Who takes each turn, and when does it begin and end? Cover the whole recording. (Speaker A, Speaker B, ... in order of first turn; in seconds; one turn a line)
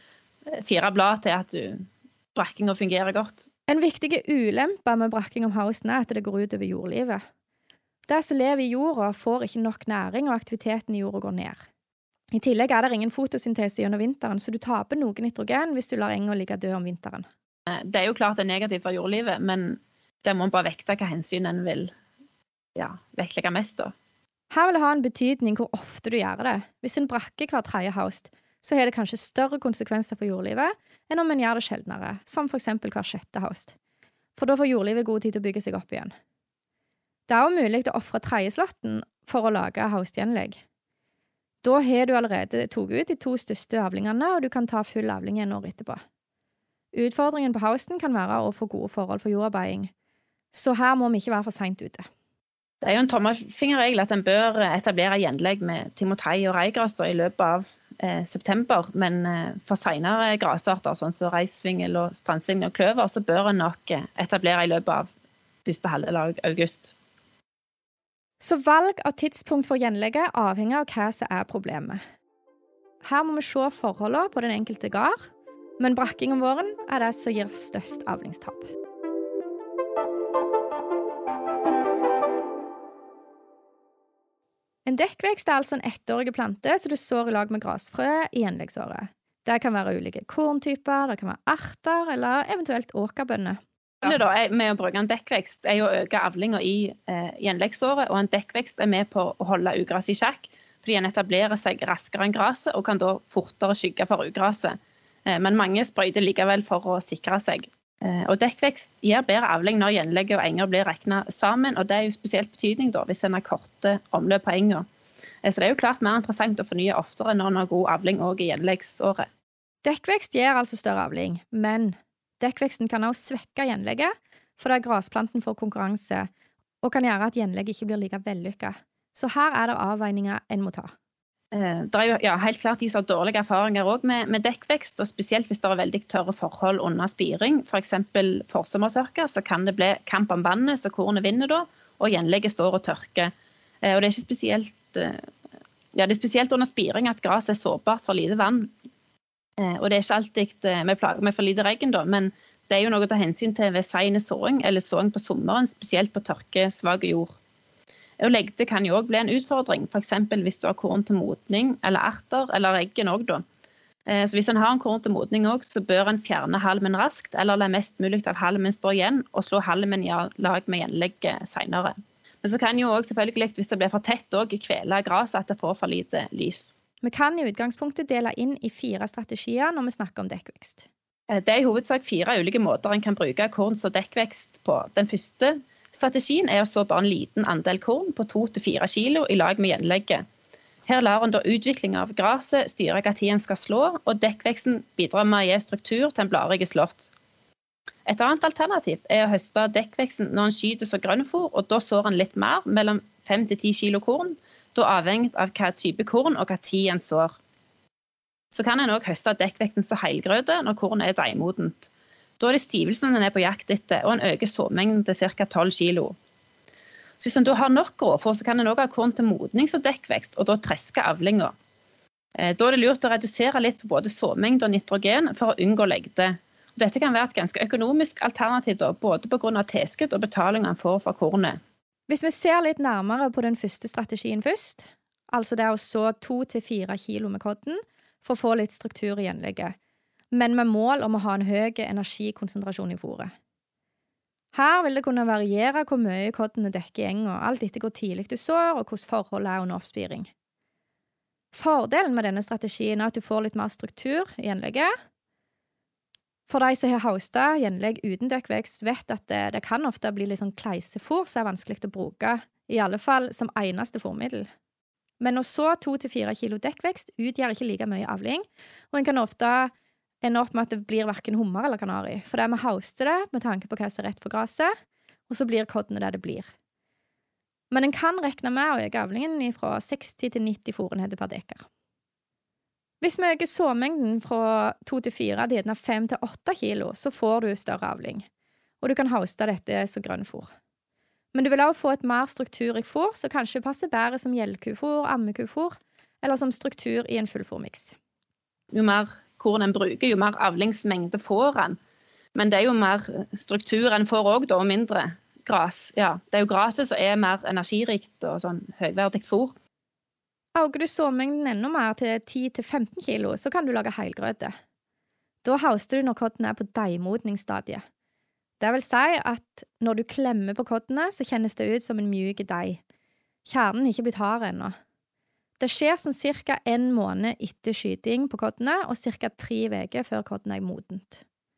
Speaker A: 0.5-3.5
Speaker B: 3.7-7.2
Speaker B: 8.1-11.6
Speaker B: 12.3-17.3
Speaker A: 17.7-21.9
Speaker A: 22.8-23.9
Speaker B: 24.5-33.8
Speaker B: 34.4-36.1
Speaker B: 37.3-40.6
Speaker B: 41.6-46.0
Speaker B: 46.9-49.9
Speaker B: 50.5-52.1
Speaker A: 52.8-65.1
Speaker A: 65.6-66.9
Speaker B: 68.4-72.0
Speaker B: 73.0-75.3
Speaker B: 75.8-78.7
Speaker B: 84.8-93.6
Speaker A: 94.0-114.9
Speaker A: 115.4-119.3
Speaker B: 119.8-126.3
Speaker B: 126.8-130.9
Speaker A: 131.5-143.3
Speaker A: 143.8-145.2
Speaker A: 145.9-148.7
Speaker A: 149.6-157.3
Speaker A: 158.2-163.4
Speaker A: 164.1-176.7
Speaker B: 177.0-180.9
Speaker A: 181.3-190.2
Speaker A: 190.9-197.1
Speaker A: 198.1-207.3
Speaker A: 208.5-216.2
Speaker A: 217.2-221.5
Speaker A: 222.4-231.6
Speaker B: 232.1-239.8
Speaker B: 240.3-243.3
Speaker B: 244.5-250.3
Speaker B: 251.5-254.9
Speaker B: 256.5-264.5
Speaker B: 265.2-274.7
Speaker B: 275.3-276.5
Speaker B: 277.7-281.6
Speaker B: 283.0-288.2
Speaker B: 288.8-290.5
Speaker B: 291.3-297.9
Speaker A: 298.7-301.8
Speaker A: 302.3-309.5
Speaker B: 310.5-314.5
Speaker B: 315.4-317.8
Speaker B: 318.6-322.8
Speaker B: 323.4-324.8
Speaker B: 325.6-331.2